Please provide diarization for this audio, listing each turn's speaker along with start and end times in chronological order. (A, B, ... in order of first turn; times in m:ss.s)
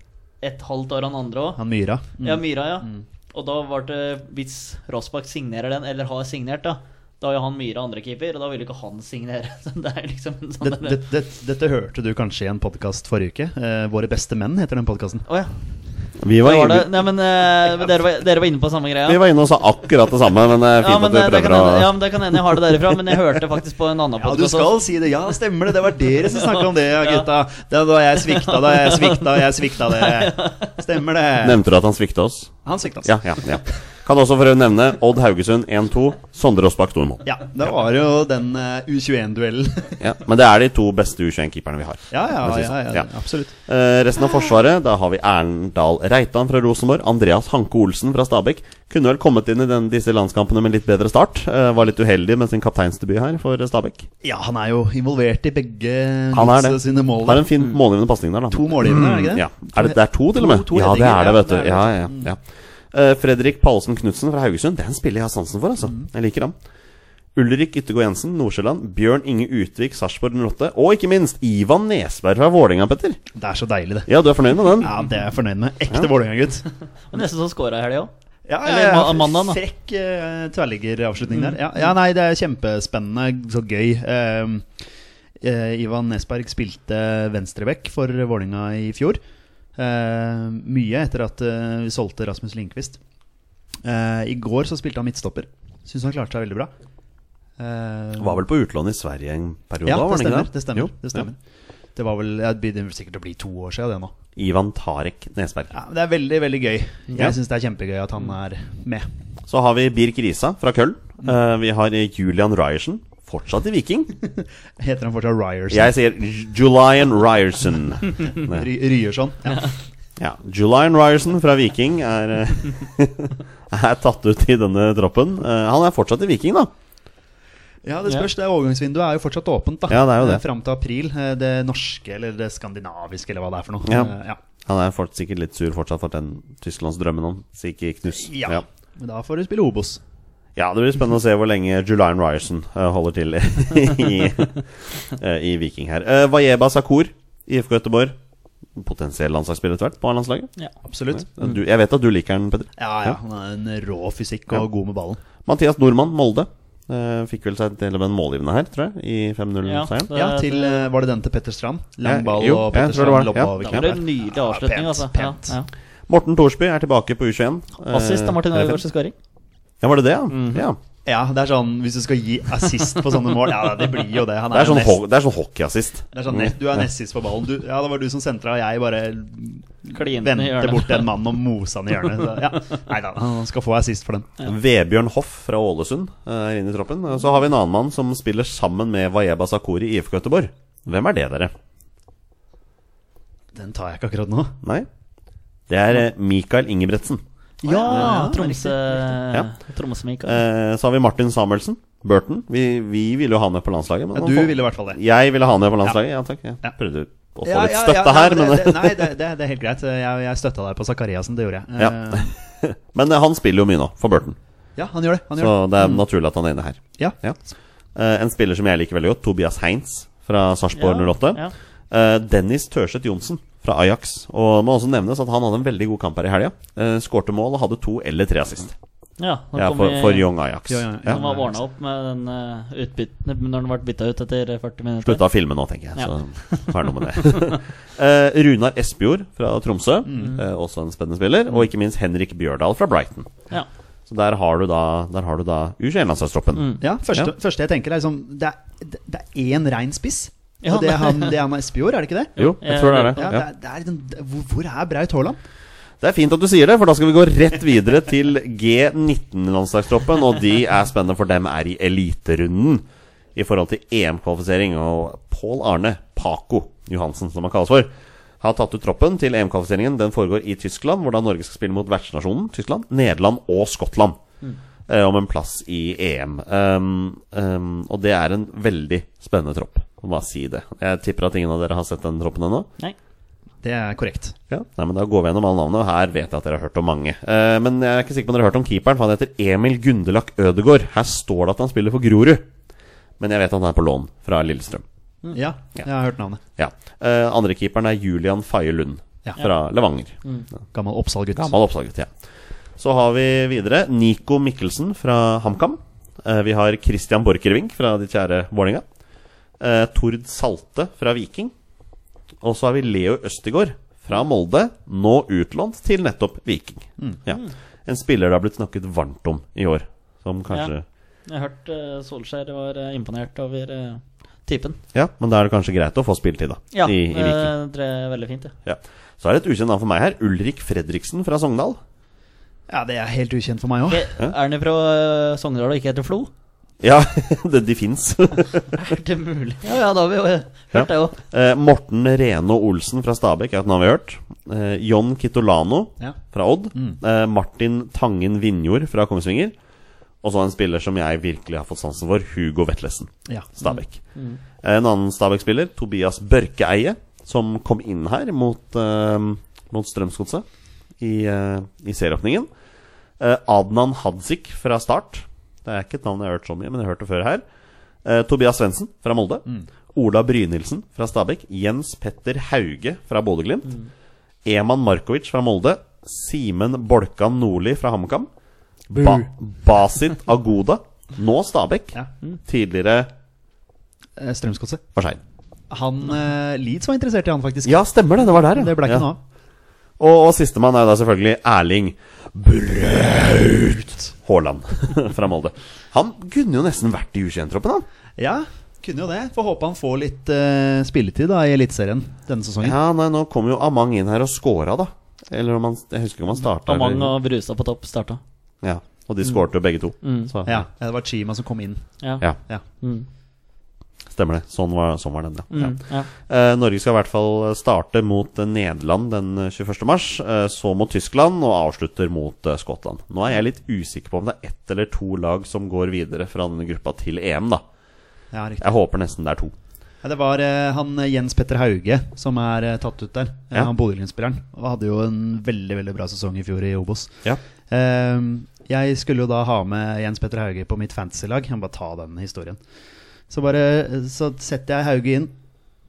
0:00.4-0:01.6 A
0:01.6-0:03.0 B
0:02.2-0:11.0 A
0:10.6-0:15.2 B
0:15.3-0:15.5 A
0:16.2-0:16.9 C
0:16.4-0:19.2 A
0:19.0-0:21.9 C
0:20.8-0:24.8 A
0:24.2-0:31.6 B
0:26.3-0:27.3 A
0:28.3-0:30.8 A
0:31.4-0:37.2 C
0:32.6-0:33.4 B
0:37.2-0:40.0 B
0:40.0-0:43.0 C
0:42.1-0:43.5 B
0:43.7-0:54.1 C
0:54.2-0:57.6 B
0:56.3-1:02.4 C
0:58.5-1:02.3 B
1:02.9-1:06.5 C
1:07.3-1:13.2 C
1:13.3-1:16.7 B
1:14.1-1:14.9 C
1:17.1-1:18.1 A
1:18.5-1:24.7 B
1:18.6-1:19.6 A
1:21.3-1:21.6 A
1:25.4-1:29.2 B
1:29.8-1:33.0 B
1:33.8-1:36.7 B
1:37.6-1:38.4 B
1:38.2-1:41.2 C
1:39.8-1:41.4 B
1:42.0-1:44.1 B
1:44.4-1:45.7 C
1:45.7-1:49.1 B
1:49.5-1:54.1 C
1:54.8-1:55.9 B
1:55.7-1:58.6 C
1:58.3-1:59.7 B
2:00.2-2:06.7 C
2:07.8-2:14.4 B
2:09.9-2:10.4 C
2:13.8-2:14.1 C
2:14.6-2:18.6 C
2:18.1-2:20.0 B
2:20.6-2:28.2 C
2:28.7-2:30.5 C
2:30.8-2:31.3 B
2:31.1-2:33.2 C
2:32.8-2:35.2 B
2:35.4-2:40.1 C
2:39.6-2:40.9 A
2:40.1-2:45.6 B
2:42.0-2:43.9 C
2:43.6-2:45.7 A
2:46.1-2:48.8 C
2:47.9-2:49.1 A
2:49.8-2:50.8 C
2:50.3-2:50.6 A
2:51.0-2:55.0 B
2:54.5-2:56.6 C
2:56.1-3:04.4 B
2:59.9-3:01.1 A
3:04.4-3:11.5 C
3:13.5-3:14.6 B
3:14.6-3:14.9 C
3:15.7-3:17.2 C
3:17.6-3:19.1 B
3:17.6-3:20.4 A
3:20.2-3:29.1 C
3:24.1-3:25.0 B
3:27.4-3:32.3 B
3:31.8-3:34.4 C
3:34.8-3:36.0 B
3:35.4-3:37.4 C
3:37.9-3:48.7 C
3:40.7-3:41.5 A
3:49.2-3:50.3 A
3:49.6-3:51.2 C
3:50.7-3:51.6 B
3:51.0-3:55.2 A
3:55.0-4:03.3 C
3:56.0-3:57.6 A
4:00.0-4:00.4 B
4:04.1-4:07.3 C
4:06.5-4:06.8 A
4:06.8-4:12.4 B
4:10.6-4:11.4 A
4:12.4-4:13.3 A
4:12.4-4:13.4 C
4:13.1-4:15.4 B
4:16.0-4:34.2 C
4:34.9-4:42.7 C
4:43.6-4:44.4 B
4:44.5-4:52.5 C
4:53.2-4:54.8 C
4:55.3-4:56.4 B
4:56.6-5:00.1 C
5:00.7-5:01.5 B
5:01.4-5:02.1 C
5:02.8-5:08.8 C
5:09.6-5:11.5 C
5:12.4-5:20.8 C
5:21.3-5:24.8 A
5:24.9-5:27.5 C
5:26.7-5:28.5 A
5:28.6-5:31.8 C
5:32.7-5:34.1 B
5:33.9-5:36.3 A
5:36.8-5:38.7 C
5:38.7-5:41.2 A
5:40.7-5:49.5 C
5:46.7-5:47.0 B
5:50.2-5:54.0 C
5:53.7-5:54.4 A
5:54.6-6:00.4 C
6:01.0-6:02.5 C
6:03.2-6:07.4 C
6:08.0-6:13.8 C
6:14.4-6:18.3 C
6:18.9-6:23.1 C
6:18.9-6:19.2 B
6:24.2-6:24.8 B
6:24.9-6:25.2 C
6:25.7-6:27.8 B
6:27.6-6:29.1 C
6:28.4-6:29.2 B
6:30.0-6:37.8 C
6:38.2-6:42.8 B
6:42.6-6:47.1 C
6:46.5-6:48.2 A
6:48.6-6:50.6 C
6:50.0-6:50.3 A
6:50.4-6:52.6 B
6:52.8-6:53.0 A
6:54.1-7:07.6 C
6:55.5-6:56.1 A
7:08.3-7:08.7 B
7:08.6-7:09.5 C
7:10.0-7:22.6 B
7:23.3-7:25.3 B